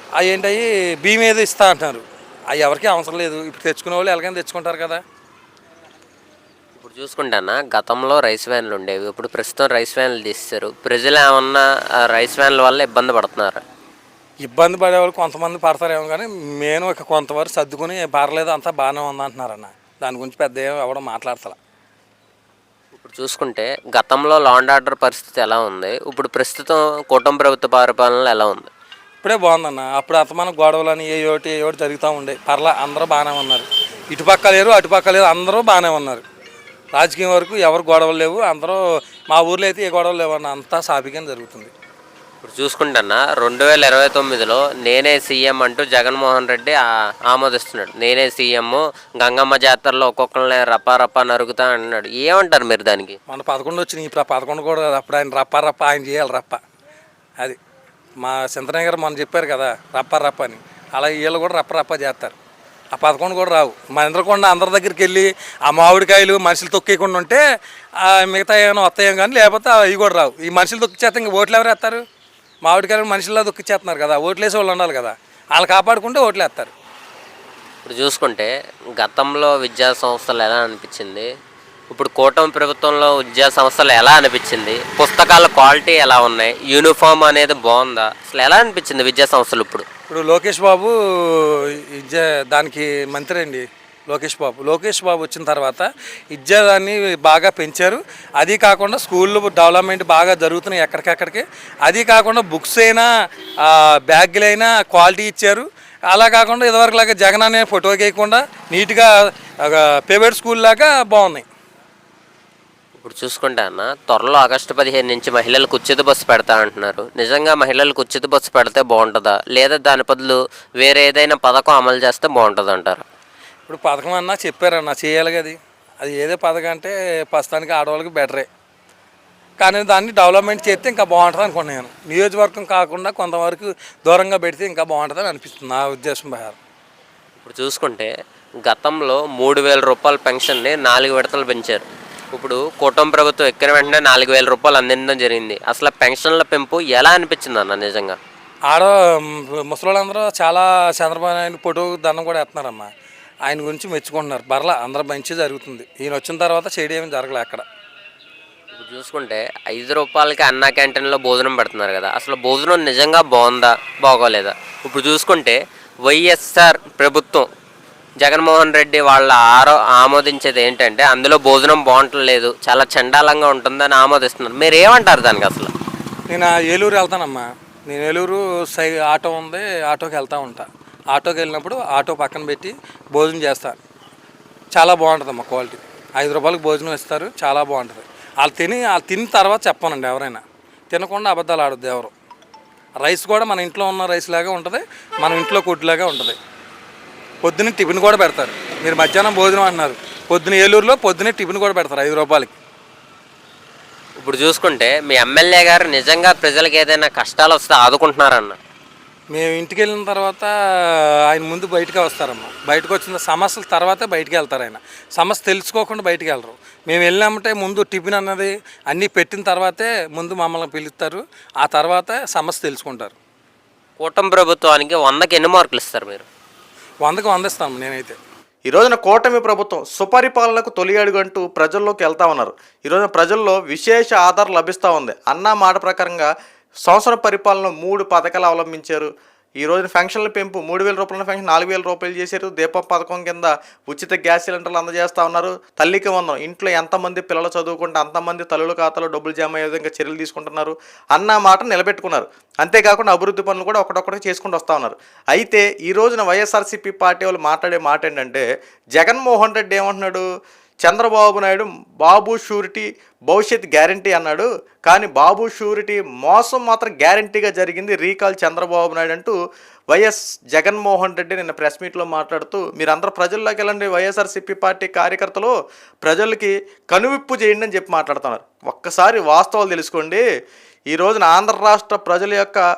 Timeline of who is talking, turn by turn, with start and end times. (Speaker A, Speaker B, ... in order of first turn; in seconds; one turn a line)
Speaker A: 0.2-5.0
Speaker B: 6.8-13.6
Speaker A: 14.4-21.6
Speaker B: 23.0-28.7
Speaker A: 29.2-36.2
Speaker A: 37.0-41.7
Speaker B: 42.4-53.2
Speaker A: 53.3-56.6
Speaker A: 58.2-62.4
Speaker A: 62.9-67.4
Speaker A: 68.0-72.0
Speaker A: 72.7-76.7
Speaker B: 77.8-81.3
Speaker B: 81.9-89.9
Speaker A: 90.1-103.1
Speaker A: 103.6-109.1
Speaker A: 109.6-111.5
Speaker B: 113.0-123.0
Speaker A: 123.7-128.5
Speaker A: 129.6-136.6
Speaker B: 137.4-138.1
Speaker B: 138.7-148.2
Speaker A: 148.7-152.9
Speaker A: 153.5-157.6
Speaker B: 158.8-167.5
Speaker B: 168.2-175.7
Speaker A: 176.3-183.8
Speaker A: 184.8-192.1
Speaker A: 193.0-196.4
Speaker A: 197.4-202.6
Speaker B: 204.2-208.6
Speaker A: 209.3-223.2
Speaker B: 224.0-226.3
Speaker A: 227.0-228.2
Speaker C: 228.7-236.3
Speaker C: 236.9-239.1
Speaker C: 239.6-258.4
Speaker C: 258.9-260.3
Speaker C: 260.9-269.4
Speaker C: 269.9-280.2
Speaker C: 280.9-282.6